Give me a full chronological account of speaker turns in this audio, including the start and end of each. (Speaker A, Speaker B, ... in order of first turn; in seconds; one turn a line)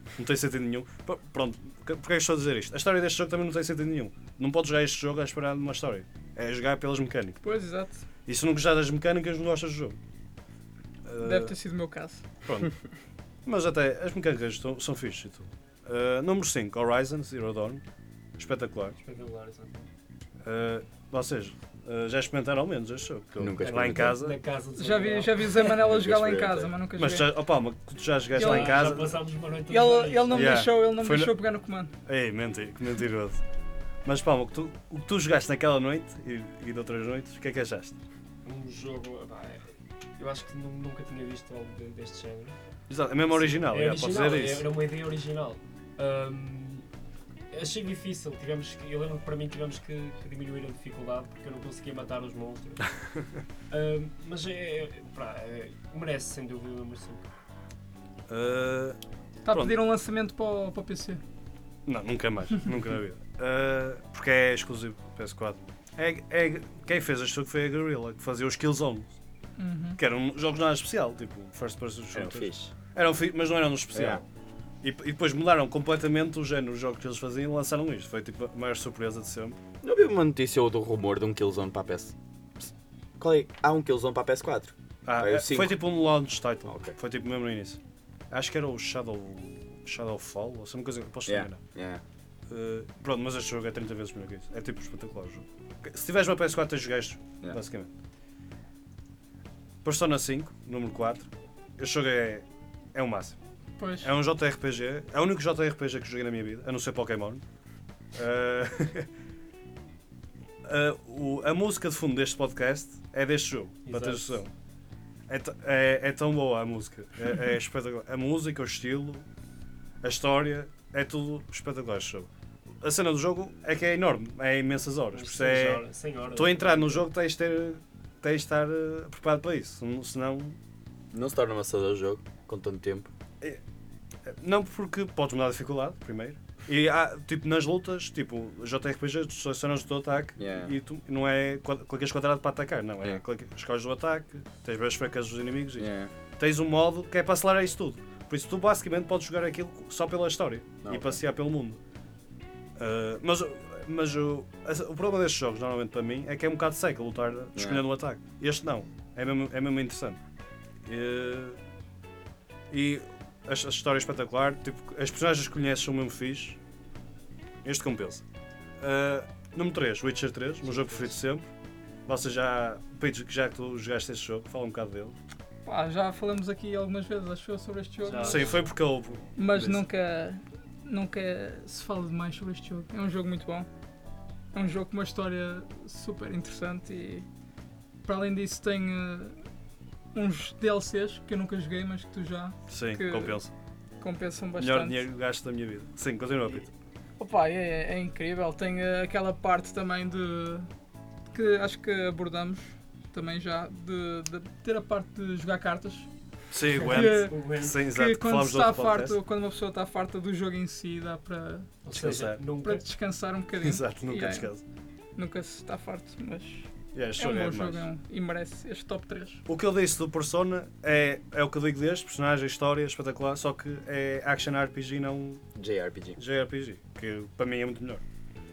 Speaker A: 0.1-7.4
Speaker B: 7.4-8.0
Speaker A: 8.2-10.0
Speaker A: 11.1-11.5
Speaker B: 11.2-12.2
Speaker A: 12.4-12.7
Speaker A: 13.4-17.8
Speaker A: 18.4-19.0
Speaker C: 19.0-19.9
Speaker A: 20.4-24.4
Speaker D: 23.4-24.2
Speaker C: 23.6-25.6
Speaker B: 24.8-27.4
Speaker D: 25.7-26.7
Speaker A: 27.0-29.2
Speaker B: 28.3-28.8
Speaker C: 28.4-30.6
Speaker B: 29.7-31.9
Speaker A: 30.3-31.3
Speaker A: 32.0-33.4
Speaker A: 34.0-38.0
Speaker C: 38.4-42.5
Speaker A: 42.9-44.7
Speaker C: 43.3-46.9
Speaker C: 47.5-52.9
Speaker C: 53.7-57.3
Speaker A: 58.3-59.8
Speaker B: 59.4-61.2
Speaker A: 61.9-69.1
Speaker B: 69.6-70.0
Speaker A: 70.0-74.2
Speaker D: 72.1-72.7
Speaker D: 73.9-74.2
Speaker A: 74.8-79.6
Speaker D: 79.8-85.8
Speaker A: 85.0-91.6
Speaker D: 86.7-86.9
Speaker D: 91.2-92.0
Speaker A: 92.5-97.9
Speaker A: 99.8-103.4
Speaker B: 103.8-104.1
Speaker A: 104.0-107.4
Speaker A: 108.1-109.1
Speaker A: 110.6-114.5
Speaker C: 113.8-114.4
Speaker A: 115.3-119.2
Speaker A: 120.0-122.3
Speaker A: 122.8-125.8
Speaker C: 125.1-127.1
Speaker A: 126.3-130.6
Speaker D: 131.1-133.1
Speaker A: 134.2-151.8
Speaker D: 140.4-140.7
Speaker D: 145.8-146.1
Speaker D: 150.8-151.2
Speaker A: 152.8-160.2
Speaker D: 157.6-157.8
Speaker A: 160.8-161.6
Speaker A: 162.7-166.6
Speaker A: 167.6-168.2
Speaker A: 168.8-171.5
Speaker C: 170.6-171.1
Speaker A: 172.1-175.2
Speaker B: 175.6-178.6
Speaker C: 178.0-178.7
Speaker A: 178.2-179.8
Speaker B: 179.4-183.7
Speaker B: 184.5-187.3
Speaker B: 188.0-189.4
Speaker B: 190.1-193.4
Speaker A: 192.7-193.5
Speaker B: 194.0-195.0
Speaker A: 194.6-196.7
Speaker B: 197.2-200.7
Speaker B: 201.3-206.1
Speaker A: 206.5-209.2
Speaker B: 206.7-211.7
Speaker C: 206.8-207.8
Speaker C: 211.8-212.8
Speaker A: 211.9-212.4
Speaker B: 212.6-214.5
Speaker A: 213.6-214.6
Speaker B: 215.2-219.4
Speaker A: 216.9-217.9
Speaker A: 219.5-225.4
Speaker D: 225.5-226.2
Speaker A: 226.2-228.0